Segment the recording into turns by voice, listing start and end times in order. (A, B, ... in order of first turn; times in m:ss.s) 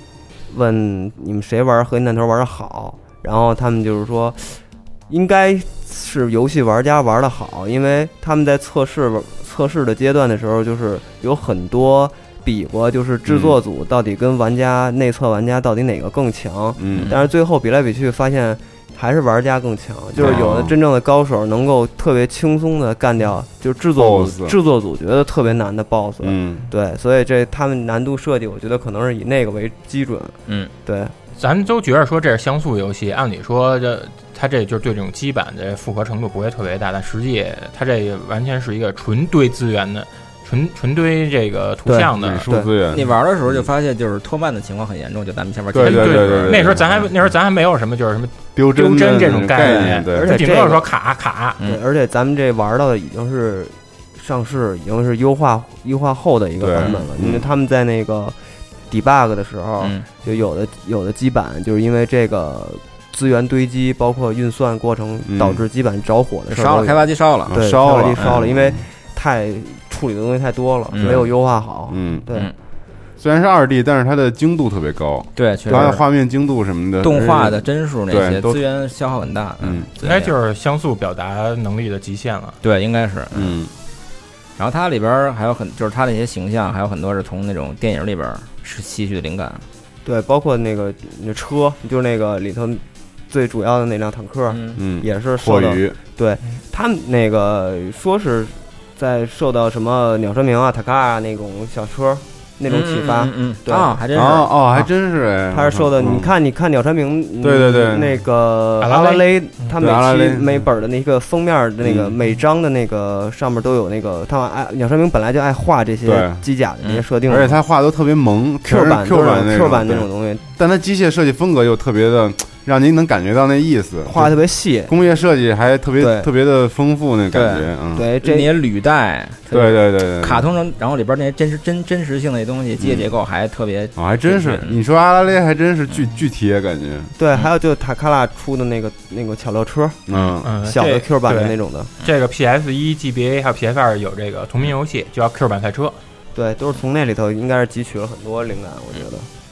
0:00.5-0:04.6 A
0:05.1-0:31.1 A
0:13.2-0:13.6 B
0:16.8-0:17.1 B
0:16.9-0:17.2 C
0:20.1-0:20.7 B
0:24.0-0:24.5 B
0:26.2-0:26.6 B
0:31.4-0:42.5 D
0:41.8-0:42.7 A
0:42.1-0:43.6 B
0:42.9-0:47.0 C
0:45.7-0:47.0 B
0:45.8-0:51.6 D
0:48.6-0:50.5 B
0:49.6-0:50.9 A
0:51.6-0:58.3 A
0:56.6-0:57.5 B
0:56.8-0:57.0 C
0:58.9-1:12.5 A
0:59.8-1:00.0 C
1:05.2-1:05.6 B
1:06.5-1:08.3 C
1:07.5-1:08.8 B
1:10.9-1:11.2 C
1:11.0-1:11.3 B
1:11.9-1:12.3 B
1:13.2-1:18.6 B
1:15.4-1:16.0 C
1:17.0-1:20.3 C
1:19.6-1:19.9 B
1:20.0-1:22.6 D
1:22.6-1:23.6 C
1:23.3-1:23.7 B
1:24.6-1:29.6 C
1:30.0-1:44.0 A
1:34.5-1:34.8 C
1:34.8-1:36.0 B
1:42.7-1:44.5 C
1:44.1-1:46.3 B
1:45.5-1:57.6 A
1:47.4-1:48.2 B
1:48.8-1:49.7 D
1:49.8-1:50.6 B
1:51.8-1:52.1 B
1:56.0-1:56.4 B
1:57.3-2:04.4 B
1:58.6-2:00.4 A
2:04.1-2:04.9 A
2:04.9-2:08.0 B
2:06.0-2:06.3 A
2:07.3-2:14.8 C
2:07.9-2:08.5 A
2:09.5-2:10.4 B
2:12.8-2:13.1 B
2:14.0-2:17.1 B
2:17.2-2:20.0 A
2:20.1-2:20.5 B
2:20.4-2:26.0 D
2:20.6-2:21.9 A
2:26.3-2:29.3 A